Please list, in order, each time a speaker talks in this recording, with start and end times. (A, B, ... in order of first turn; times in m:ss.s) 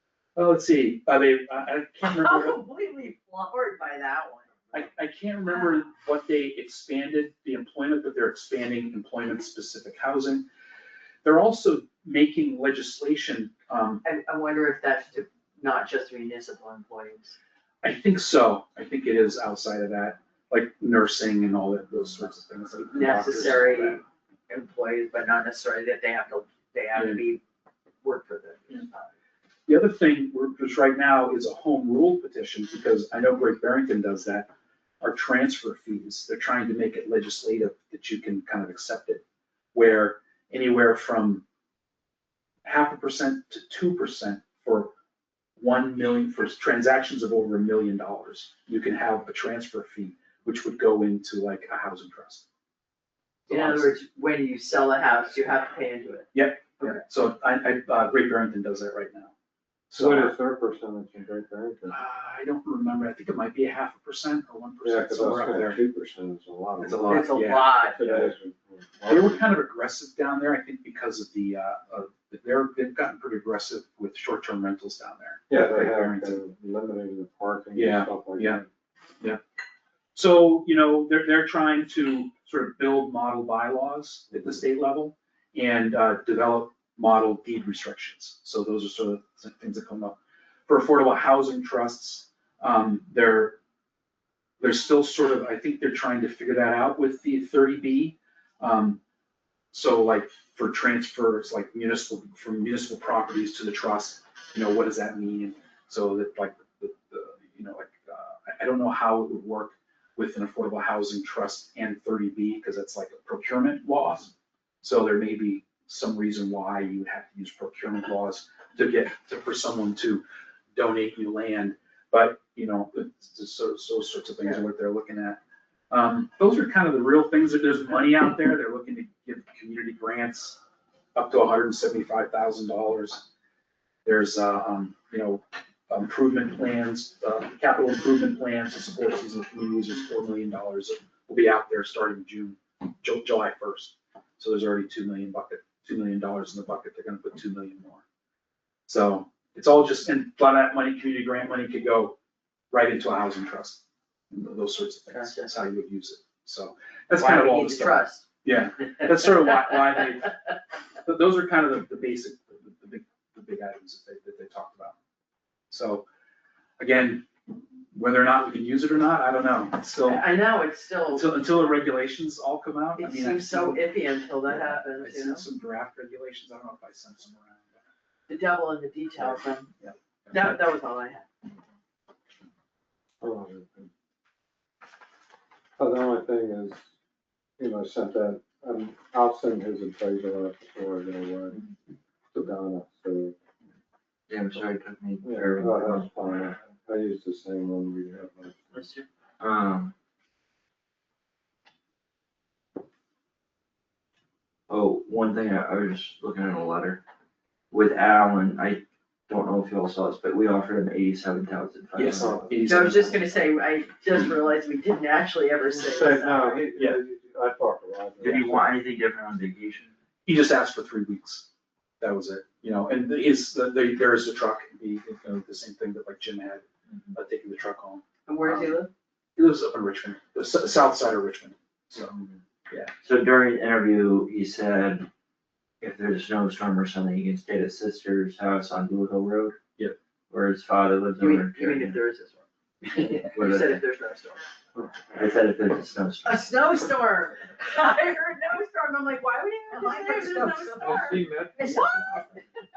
0:00.4-0:02.6 A
0:02.0-0:04.6 B
0:04.7-0:10.4 A
0:11.2-0:14.0 A
0:14.0-0:17.4 B
0:17.8-0:24.0 A
0:22.9-0:27.4 B
0:26.9-0:27.2 A
0:28.0-0:29.1 B
0:29.7-0:34.5 A
0:35.0-0:39.2 A
0:39.7-0:41.4 A
0:42.6-0:44.9 A
0:45.6-0:52.4 A
0:53.5-0:54.0 A
0:53.5-0:57.0 B
0:56.3-0:59.3 A
0:59.9-1:00.4 A
1:00.0-1:02.0 C
1:01.9-1:05.8 A
1:04.8-1:07.4 C
1:06.8-1:08.3 A
1:07.1-1:08.0 B
1:07.9-1:09.4 C
1:09.0-1:16.4 A
1:15.5-1:18.7 C
1:17.7-1:18.6 A
1:20.1-1:33.6 A
1:34.6-1:39.0 A
1:39.7-2:00.2 A
2:00.7-2:05.4 A
2:05.9-2:10.6 A
2:11.1-2:13.2 A
2:14.0-2:28.0 A
2:28.8-2:32.2 A
2:32.7-2:40.4 A
2:35.1-2:35.5 B
2:37.2-2:38.2 B
2:41.0-2:45.0 A
2:45.7-2:46.0 A
2:46.8-2:47.3 A
2:47.9-2:50.3 A
2:50.0-2:51.8 B
2:51.1-2:53.9 A
2:53.0-2:55.4 B
2:54.5-2:57.8 A
2:58.3-2:59.7 B
2:59.8-3:00.6 A
3:00.3-3:01.3 B
3:03.2-3:03.9 C
3:05.8-3:06.8 C
3:07.6-3:11.6 C
3:12.3-3:13.3 C
3:14.3-3:16.5 D
3:15.2-3:18.8 C
3:18.7-3:19.9 D
3:24.7-3:27.0 D
3:27.7-3:32.3 D
3:31.9-3:33.2 A
3:32.0-3:33.1 C
3:32.6-3:36.6 B
3:35.8-3:38.8 C
3:38.2-3:39.9 D
3:40.2-3:41.5 A
3:42.0-3:48.7 A
3:48.3-3:48.9 B
3:49.4-3:52.2 A
3:53.0-3:55.1 D
3:55.8-3:59.6 D
4:00.3-4:02.0 D
4:01.2-4:04.4 B
4:03.2-4:03.8 D
4:05.1-4:06.5 D
4:06.2-4:12.4 B
4:09.8-4:11.0 A
4:10.5-4:12.3 C